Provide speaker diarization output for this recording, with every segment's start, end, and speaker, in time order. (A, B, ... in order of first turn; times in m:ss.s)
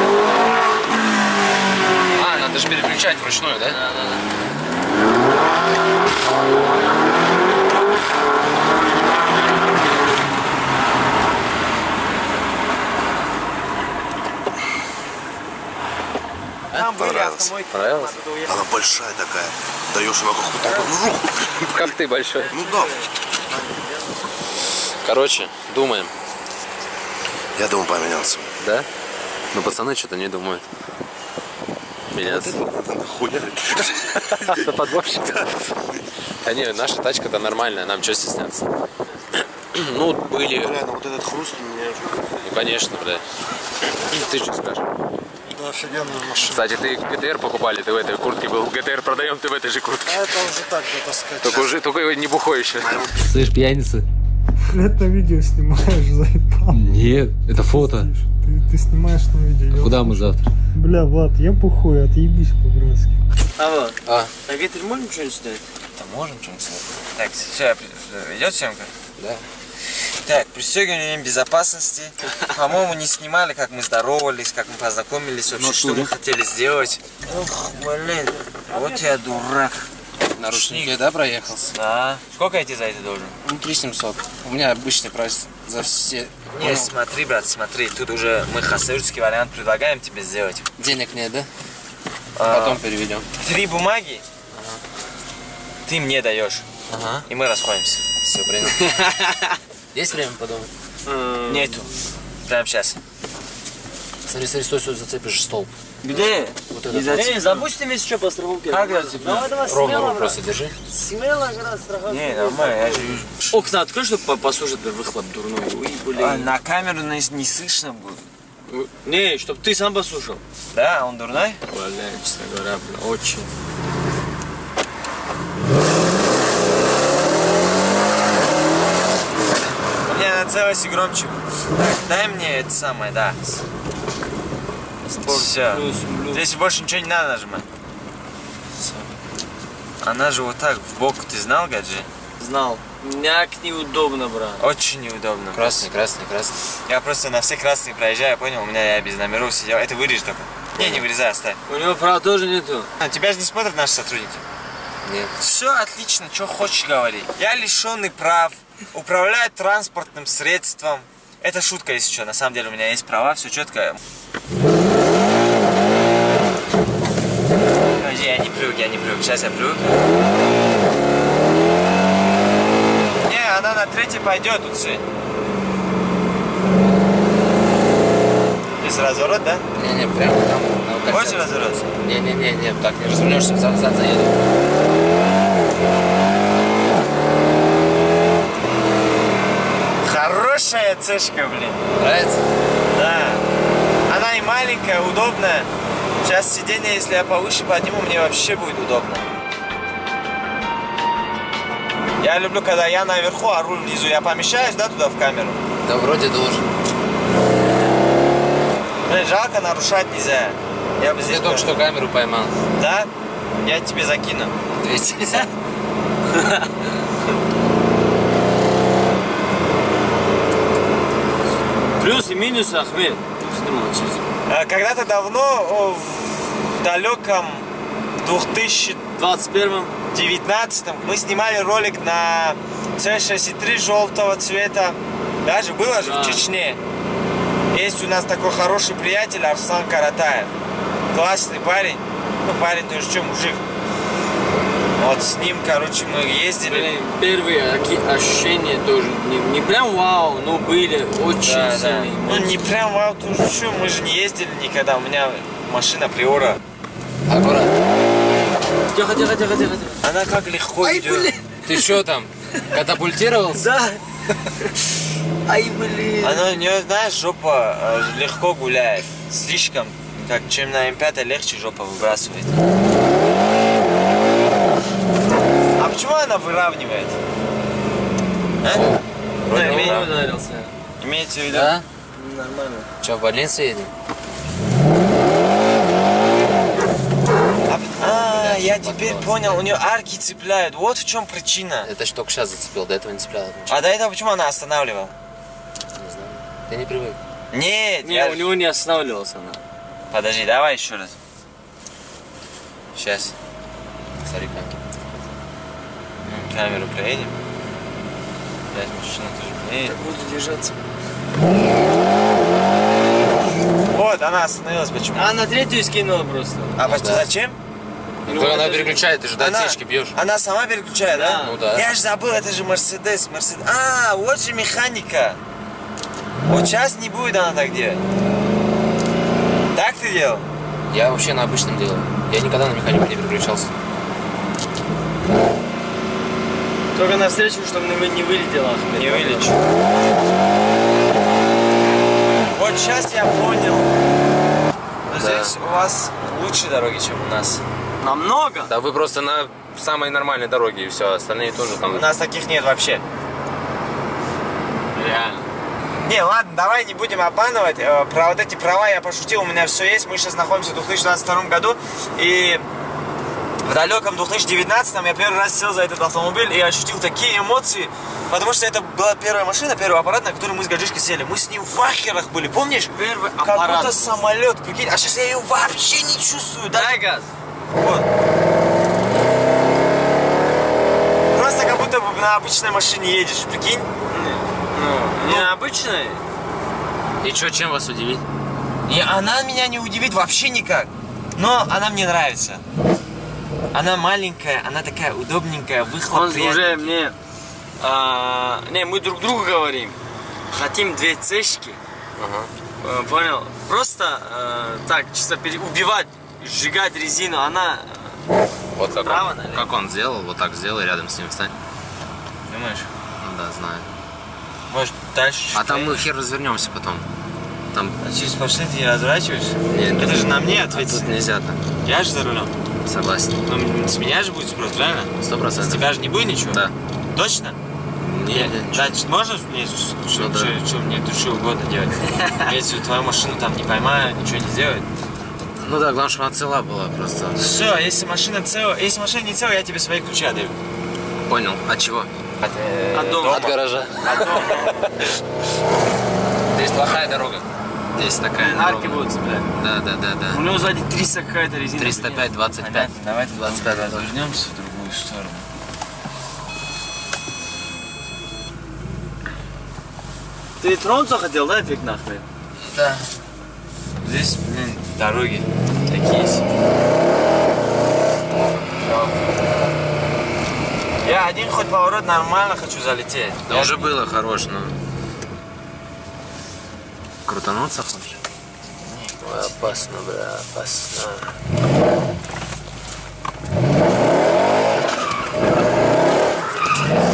0:02.2-0:03.8 A
0:03.7-0:04.2 B
0:16.7-0:18.6 C
0:17.0-0:17.5 D
0:17.7-0:18.2 A
0:18.5-0:21.9 D
0:21.7-0:22.5 A
0:22.4-0:24.1 B
0:22.5-0:23.1 D
0:25.0-0:26.1 A
0:27.6-0:28.5 D
0:28.6-0:28.9 A
0:29.5-0:30.6 A
0:32.1-0:32.6 A
0:32.2-0:34.6 D
0:34.0-0:35.5 A
0:36.4-0:38.7 A
0:39.7-0:40.8 A
0:40.4-0:42.3 D
0:42.4-0:43.2 A
0:44.0-0:44.8 A
0:45.5-0:46.6 E
0:46.4-0:50.3 A
0:50.0-0:51.7 E
0:51.4-0:54.0 A
0:52.8-0:53.3 D
0:54.7-1:03.2 F
0:56.7-0:58.1 A
0:59.7-1:00.5 A
1:03.6-1:05.6 B
1:04.0-1:04.3 A
1:06.0-1:08.9 C
1:10.1-1:19.9 C
1:15.5-1:16.1 A
1:20.4-1:21.7 A
1:20.4-1:21.0 C
1:21.7-1:23.3 C
1:23.4-1:26.9 A
1:26.5-1:30.7 C
1:30.8-1:31.5 A
1:32.4-1:32.8 C
1:32.4-1:33.3 A
1:33.4-1:34.2 C
1:34.5-1:34.8 A
1:35.8-1:36.6 C
1:36.9-1:37.2 A
1:37.3-1:38.0 C
1:38.2-1:38.9 A
1:39.9-1:40.7 A
1:41.0-1:41.9 B
1:41.5-1:41.9 C
1:42.4-1:43.0 C
1:44.2-1:45.7 A
1:46.0-1:46.5 C
1:46.0-1:50.4 B
1:46.7-1:47.4 A
1:47.1-1:47.6 C
1:48.7-1:49.5 C
1:49.6-1:50.7 A
1:50.9-1:56.5 B
1:52.1-1:53.5 C
1:56.2-1:58.2 C
1:58.7-2:00.4 B
2:00.7-2:01.6 C
2:01.7-2:03.5 B
2:10.0-2:13.4 C
2:15.2-2:16.4 B
2:15.2-2:17.6 C
2:18.7-2:19.1 A
2:20.0-2:22.1 C
2:22.4-2:24.6 B
2:24.6-2:25.9 C
2:25.5-2:26.6 A
2:26.9-2:31.6 C
2:31.7-2:32.9 B
2:33.0-2:34.4 C
2:35.0-2:35.3 A
2:35.4-2:44.0 C
2:48.0-2:49.9 C
2:53.2-2:55.0 C
2:58.8-2:59.7 C
2:59.7-3:04.4 A
3:01.1-3:01.9 C
3:10.0-3:11.8 C
3:12.0-3:12.4 A
3:12.9-3:13.4 C
3:14.1-3:15.7 C
3:16.2-3:19.3 C
3:22.2-3:25.6 C
3:25.8-3:26.7 A
3:29.0-3:31.8 C
3:31.2-3:32.5 A
3:32.8-3:33.1 C
3:33.6-3:34.5 C
3:34.8-3:35.5 A
3:36.3-3:36.7 B
3:42.0-3:44.2 B
3:44.5-3:47.7 C
3:48.2-3:49.1 C
3:49.1-3:49.9 B
3:50.1-3:56.8 C
3:55.9-3:56.4 B
3:57.7-4:00.5 C
4:01.1-4:03.6 C
4:05.0-4:06.9 C
4:06.7-4:12.6 B
4:11.4-4:16.6 C
4:17.3-4:17.7 A
4:18.9-4:20.0 B
4:20.0-4:21.3 C
4:20.8-4:21.9 B
4:21.6-4:23.6 A
4:23.5-4:24.7 B
4:25.4-4:26.6 B
4:26.2-4:32.6 C
4:35.8-4:37.2 C
4:38.7-4:40.1 A
4:39.5-4:40.1 C
4:39.5-4:40.7 B
4:41.0-4:41.7 C
4:41.5-4:41.8 A
4:42.1-4:42.9 B
4:43.0-4:43.9 A
4:47.7-4:51.9 C
4:48.0-4:49.7 A
4:51.8-4:53.8 A
4:53.7-4:55.1 C
4:56.0-4:57.2 A
4:57.5-4:58.5 C
4:58.0-4:59.6 B
5:00.1-5:01.2 C
5:02.9-5:03.3 C
5:04.2-5:04.7 A
5:06.2-5:07.4 C
5:08.7-5:10.0 C
5:09.8-5:10.7 B
5:13.9-5:15.3 C
5:15.1-5:16.8 B
5:16.8-5:17.6 C
5:16.8-5:17.3 A
5:18.2-5:20.1 A
5:18.3-5:19.1 B
5:19.4-5:25.4 C
5:21.0-5:21.5 B
5:21.4-5:21.9 A
5:26.4-5:28.0 C
5:29.7-5:30.5 C
5:30.9-5:33.7 A
5:36.9-5:39.5 B
5:38.9-5:39.6 C
5:42.5-5:43.9 C
5:45.1-5:47.6 C
5:45.2-5:45.5 A
5:48.0-5:48.7 B
5:48.7-5:52.1 A
5:51.9-5:53.0 C
5:54.9-5:55.4 B
5:56.0-6:02.6 C
6:03.6-6:17.0 C
6:12.9-6:14.2 B
6:16.7-6:17.3 B
6:17.7-6:18.1 C
6:21.3-6:23.9 C
6:24.1-6:26.2 B
6:25.2-6:25.5 C
6:27.2-6:28.2 A
6:28.9-6:32.6 C
6:33.7-6:36.9 C
6:36.1-6:37.1 B
6:37.8-6:40.0 B
6:40.5-6:41.8 B
6:42.2-6:42.5 A
6:42.8-6:48.2 B
6:48.8-6:51.5 A
6:49.0-6:49.7 B
6:52.5-6:52.9 C
6:53.2-6:53.9 A
6:54.7-6:56.0 C
6:55.5-6:57.1 A
6:58.0-7:01.2 C
6:59.7-7:01.6 A
7:01.8-7:02.5 C
7:02.8-7:03.4 A
7:03.4-7:07.6 C
7:05.2-7:06.7 A
7:08.0-7:09.0 A
7:08.3-7:14.9 C
7:10.1-7:10.6 A
7:15.6-7:17.5 A
7:17.4-7:20.6 C
7:21.3-7:22.1 A
7:22.4-7:24.9 C
7:22.9-7:23.5 B
7:23.2-7:24.7 A
7:24.1-7:24.6 B
7:26.5-7:29.0 A
7:28.4-7:29.5 B
7:29.6-7:30.4 A
7:30.3-7:32.2 B
7:31.8-7:34.1 A
7:32.6-7:35.5 C
7:40.6-7:42.2 B
7:42.6-7:43.1 C
7:44.0-7:45.5 C
7:45.9-7:46.4 B
7:48.8-7:49.4 C
7:51.0-7:53.9 C
7:53.5-7:54.7 A
7:57.2-7:58.2 A
7:58.8-7:59.8 C
7:59.2-8:01.3 A